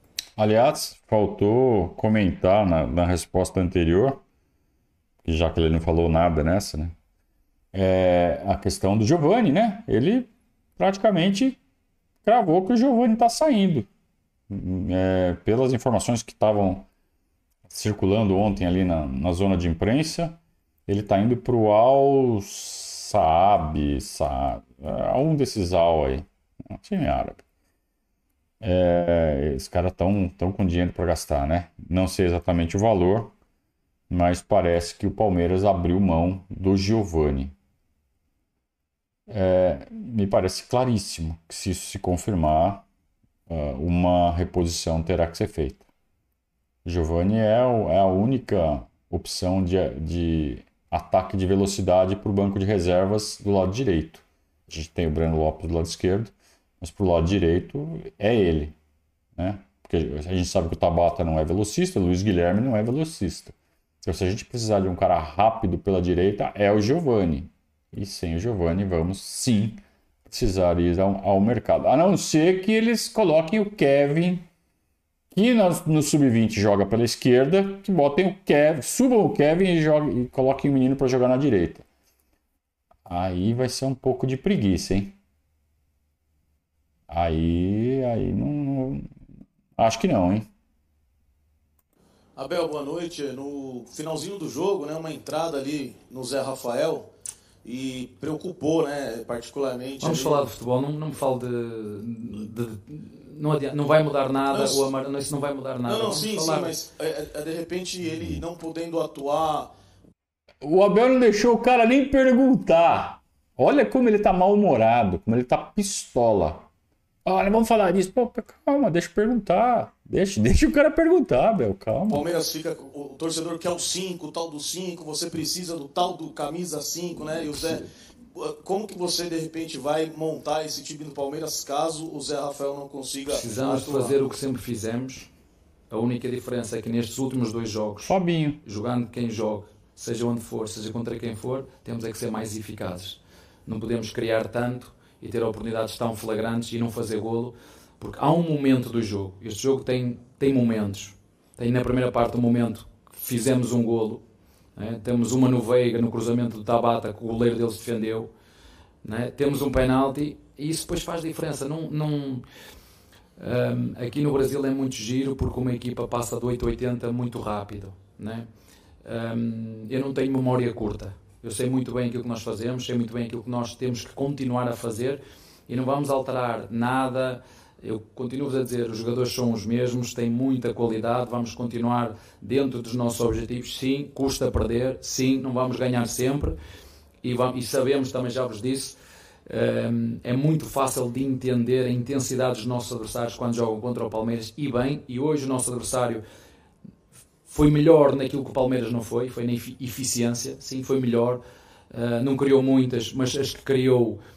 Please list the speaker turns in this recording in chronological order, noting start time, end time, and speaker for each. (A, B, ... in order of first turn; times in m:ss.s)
0:00.4-0:04.2 A
0:05.2-0:07.0 A
0:07.7-0:11.6 A
0:12.2-0:13.9 A
0:14.5-0:16.9 A
0:17.7-0:27.4 A
0:28.6-0:33.3 A
0:34.1-0:37.5 A
0:39.3-0:42.8 A
0:43.5-0:45.8 A
0:46.8-0:58.8 A
0:59.4-1:14.5 A
1:15.3-1:21.8 A
1:23.1-1:25.2 A
1:27.1-1:29.1 A
1:29.8-1:30.5 A
1:32.4-1:37.1 B
1:37.6-1:40.4 B
1:40.0-1:46.8 C
1:44.5-1:44.9 B
1:45.9-1:49.7 B
1:50.6-1:56.7 A
1:57.2-2:02.3 A
2:02.1-2:07.8 B
2:08.4-2:14.2 B
2:13.3-2:15.3 C
2:15.9-2:34.2 C
2:18.0-2:18.6 A
2:34.8-2:38.3 C
2:39.0-2:42.4 C
2:43.4-2:48.5 C
2:49.0-3:06.6 C
3:07.2-3:09.0 C
3:09.5-3:16.2 C
3:17.5-3:24.2 C